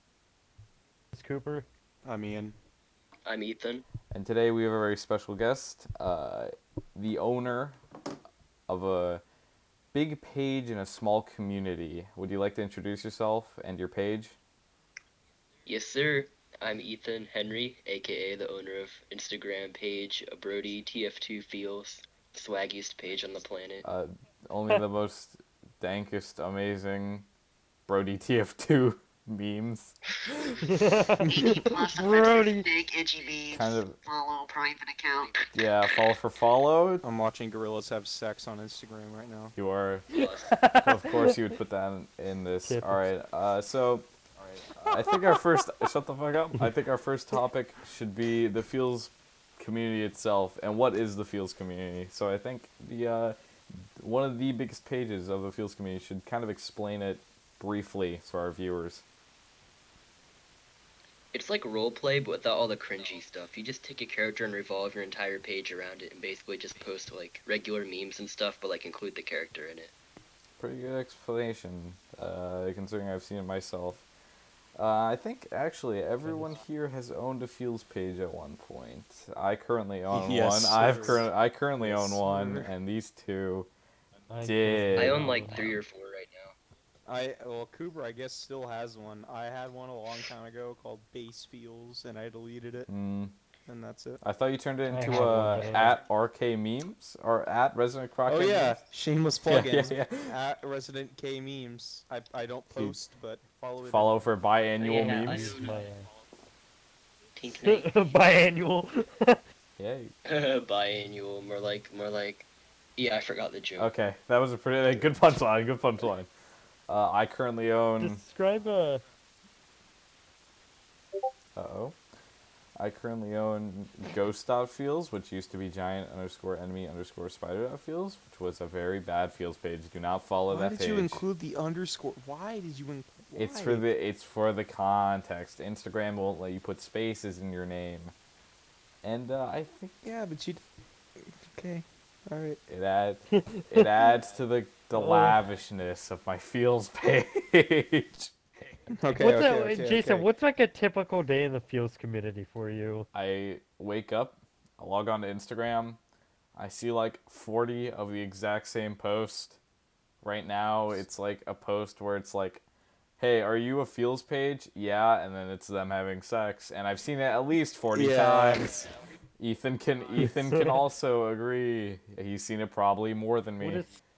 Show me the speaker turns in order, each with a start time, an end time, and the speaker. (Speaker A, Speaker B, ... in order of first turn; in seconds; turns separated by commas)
Speaker A: 1.1-1.7, Speaker B: 2.0-2.6, Speaker C: 3.2-3.9, Speaker D: 4.1-7.8, Speaker D: 8.7-9.2, Speaker D: 9.9-14.4, Speaker C: 15.7-23.9, Speaker D: 23.8-27.3, Speaker D: 27.9-30.0, Speaker A: 30.6-32.7, Speaker B: 31.2-31.6, Speaker E: 31.2-35.4, Speaker D: 33.5-34.0, Speaker D: 35.5-37.1, Speaker B: 37.0-39.6, Speaker D: 39.6-40.1, Speaker C: 40.1-40.6, Speaker A: 40.1-41.5, Speaker D: 40.8-44.1, Speaker A: 42.7-43.0, Speaker D: 44.7-59.0, Speaker A: 45.0-45.4, Speaker C: 61.3-69.9, Speaker D: 70.6-74.0, Speaker D: 74.8-83.7, Speaker A: 76.2-76.6, Speaker B: 80.1-81.3, Speaker B: 81.8-82.7, Speaker A: 84.3-85.8, Speaker D: 84.4-85.3, Speaker C: 85.0-86.5, Speaker B: 87.1-92.9, Speaker D: 92.9-93.3, Speaker B: 93.7-94.2, Speaker D: 94.2-98.8, Speaker A: 94.9-96.0, Speaker B: 98.3-104.2, Speaker D: 99.5-100.3, Speaker D: 103.8-105.6, Speaker C: 104.8-105.8, Speaker A: 104.8-106.1, Speaker C: 107.4-108.0, Speaker A: 107.6-109.4, Speaker D: 109.8-110.1, Speaker C: 110.2-113.9, Speaker D: 113.8-116.3, Speaker D: 116.9-118.2, Speaker A: 118.0-119.0, Speaker D: 121.6-122.0, Speaker D: 122.8-131.2, Speaker B: 130.5-133.9, Speaker D: 133.3-138.1, Speaker D: 139.0-140.0, Speaker B: 140.0-140.7, Speaker B: 141.2-142.6, Speaker D: 142.7-148.3, Speaker A: 143.3-144.1, Speaker A: 144.9-145.4, Speaker B: 148.9-150.3, Speaker A: 149.2-153.1, Speaker D: 153.1-156.0, Speaker D: 156.6-159.6, Speaker D: 160.2-162.6, Speaker D: 163.2-173.9, Speaker B: 167.9-168.7, Speaker A: 170.2-170.8, Speaker A: 173.6-174.0